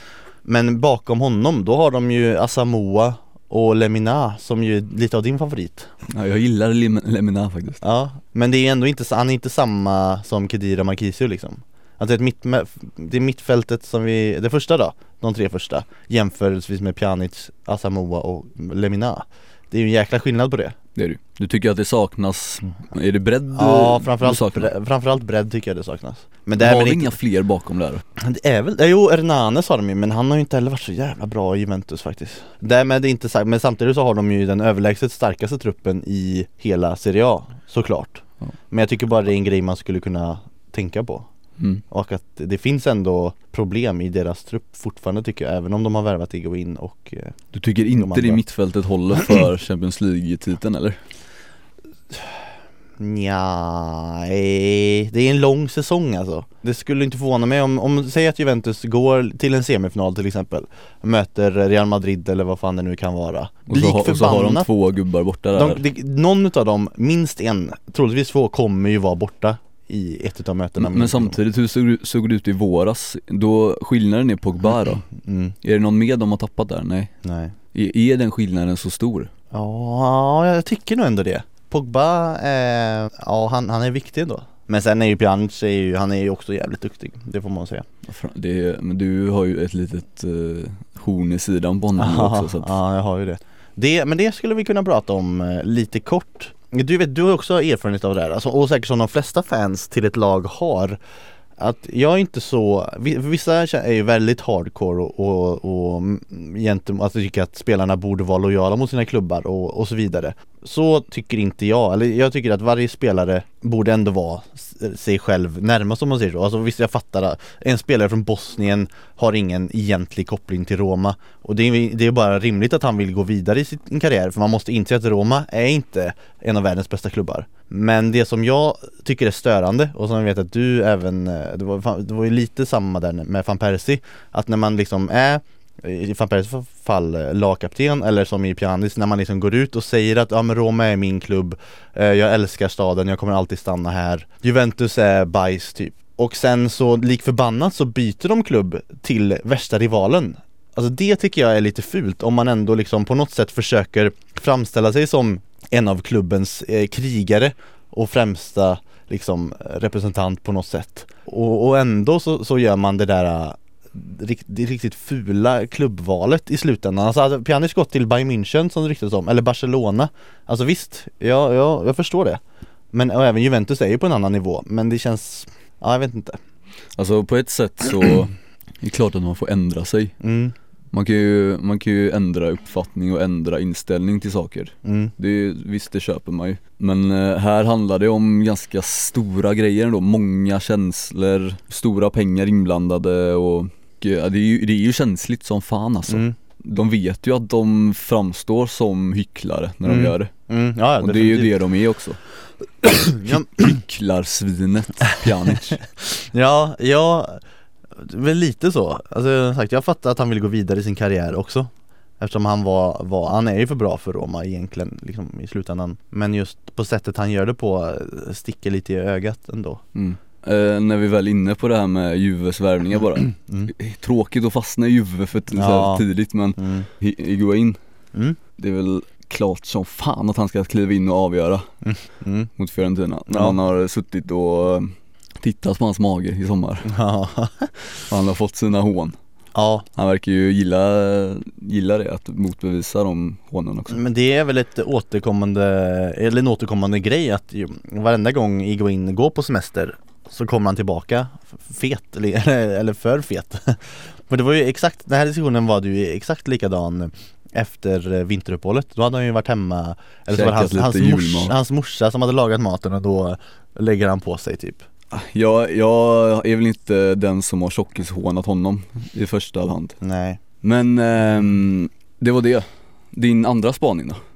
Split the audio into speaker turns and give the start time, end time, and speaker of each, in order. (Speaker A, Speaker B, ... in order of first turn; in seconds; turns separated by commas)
Speaker A: 0.5-5.9, Speaker B: 6.1-7.8, Speaker A: 7.8-20.8, Speaker B: 20.9-24.7, Speaker A: 23.5-27.2, Speaker B: 26.6-28.0, Speaker A: 28.2-41.3, Speaker A: 41.9-47.4, Speaker B: 47.5-51.0, Speaker A: 47.9-48.4, Speaker A: 52.1-52.4, Speaker A: 53.0-64.7, Speaker B: 63.7-65.8, Speaker A: 65.6-71.4, Speaker B: 70.8-75.0, Speaker A: 75.0-75.5, Speaker B: 75.6-77.1, Speaker A: 77.2-77.5, Speaker B: 77.7-79.3, Speaker A: 79.5-87.9, Speaker B: 88.0-92.8, Speaker A: 92.0-101.0, Speaker A: 101.6-172.4, Speaker A: 172.9-176.4, Speaker B: 177.0-180.1, Speaker A: 180.2-180.6, Speaker B: 180.9-200.3, Speaker A: 184.8-185.1, Speaker A: 196.1-196.3, Speaker A: 199.8-201.6, Speaker B: 201.0-202.2, Speaker A: 202.8-203.8, Speaker B: 203.3-205.8, Speaker A: 205.2-207.4, Speaker A: 208.0-219.8, Speaker B: 219.9-227.8, Speaker A: 225.5-226.1, Speaker A: 226.6-226.9, Speaker B: 228.6-231.7, Speaker A: 231.8-232.5, Speaker B: 232.6-236.9, Speaker A: 233.3-233.6, Speaker A: 236.9-237.7, Speaker B: 238.1-239.2, Speaker A: 239.6-239.9, Speaker B: 239.9-244.0, Speaker A: 243.9-264.9, Speaker B: 260.3-261.6, Speaker B: 265.1-270.0, Speaker A: 270.0-270.4, Speaker B: 270.6-274.2